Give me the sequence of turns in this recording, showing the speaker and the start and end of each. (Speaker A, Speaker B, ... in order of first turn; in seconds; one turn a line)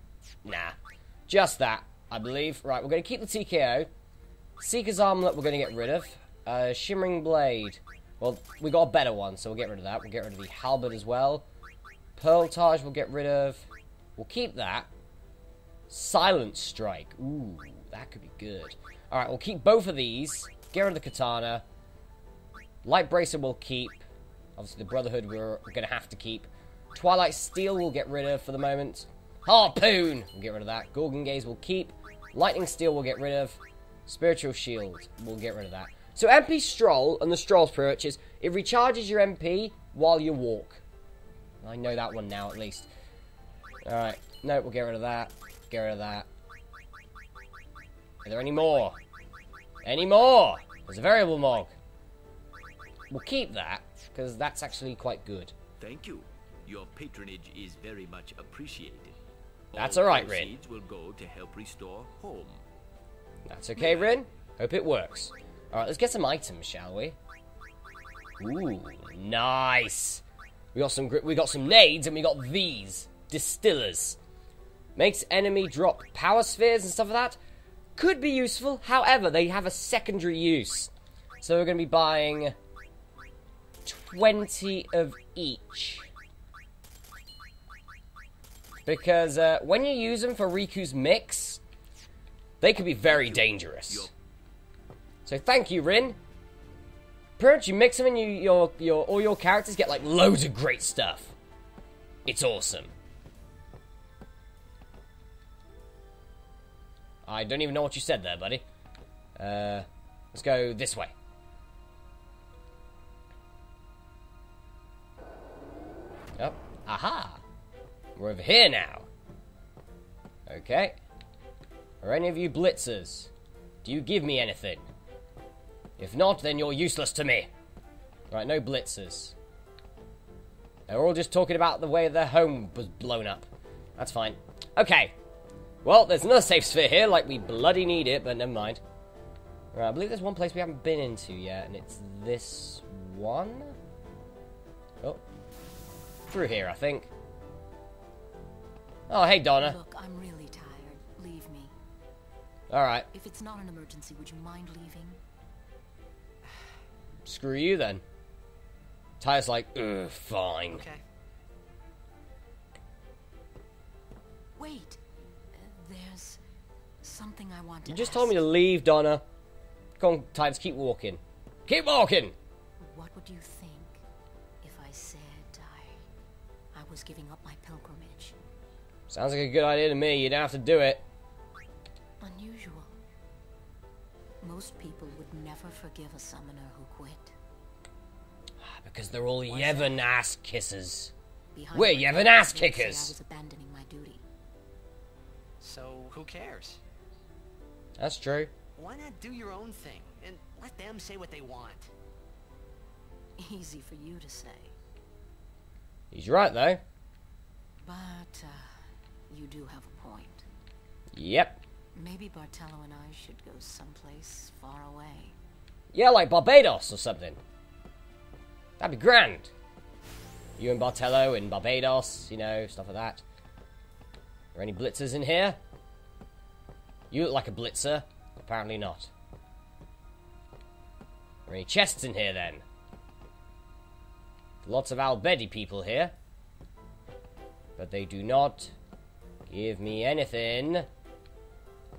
Speaker A: 0.4-0.8
Speaker A: 1.3-3.9
Speaker A: 4.6-11.4
Speaker A: 12.2-13.7
Speaker A: 14.2-14.9
Speaker A: 15.9-21.6
Speaker A: 22.8-24.0
Speaker A: 24.6-40.8
Speaker A: 41.6-42.9
Speaker A: 43.8-46.3
Speaker A: 48.2-49.0
Speaker A: 49.8-51.7
Speaker A: 53.1-55.5
Speaker B: 55.8-59.1
Speaker A: 59.7-60.5
Speaker B: 59.7-62.6
Speaker A: 63.5-67.2
Speaker A: 68.4-70.2
Speaker A: 70.7-74.2
Speaker A: 75.0-77.4
Speaker A: 78.0-82.5
Speaker A: 83.8-86.1
Speaker A: 88.8-91.6
Speaker A: 92.6-94.1
Speaker B: 93.0-94.1
Speaker A: 95.2-96.2
Speaker A: 97.4-101.3
Speaker A: 102.2-102.9
Speaker A: 107.2-108.6
Speaker A: 109.4-111.1
Speaker A: 116.4-117.4
Speaker A: 118.2-119.1
Speaker A: 120.5-121.0
Speaker A: 122.0-123.3
Speaker A: 123.8-124.8
Speaker A: 126.0-127.5
Speaker A: 128.3-129.3
Speaker A: 130.9-135.1
Speaker A: 135.8-138.8
Speaker A: 139.7-143.8
Speaker A: 146.3-147.1
Speaker A: 149.1-149.8
Speaker C: 149.6-151.7
Speaker A: 152.7-153.1
Speaker C: 153.1-155.2
Speaker A: 157.2-158.0
Speaker A: 159.2-160.8
Speaker D: 160.7-161.0
Speaker C: 164.6-165.0
Speaker C: 165.5-166.4
Speaker C: 167.0-168.4
Speaker A: 167.8-169.2
Speaker A: 170.0-172.3
Speaker C: 172.8-174.0
Speaker C: 174.6-175.9
Speaker C: 176.7-178.3
Speaker A: 179.1-181.0
Speaker C: 182.2-182.9
Speaker C: 184.4-187.3
Speaker A: 188.6-191.1
Speaker C: 189.5-190.0
Speaker C: 191.5-194.2
Speaker A: 191.7-193.2
Speaker D: 195.6-196.8
Speaker A: 198.0-198.5
Speaker D: 198.8-201.9
Speaker C: 203.4-204.7
Speaker A: 206.1-206.8
Speaker C: 207.8-208.7
Speaker C: 209.3-210.4
Speaker A: 211.1-211.6
Speaker C: 211.9-215.3
Speaker A: 215.9-217.4
Speaker A: 218.8-219.5
Speaker A: 220.6-223.2
Speaker A: 224.5-225.6
Speaker A: 227.1-229.1
Speaker A: 231.5-232.6
Speaker A: 234.6-236.1
Speaker A: 237.8-238.7
Speaker A: 239.5-240.9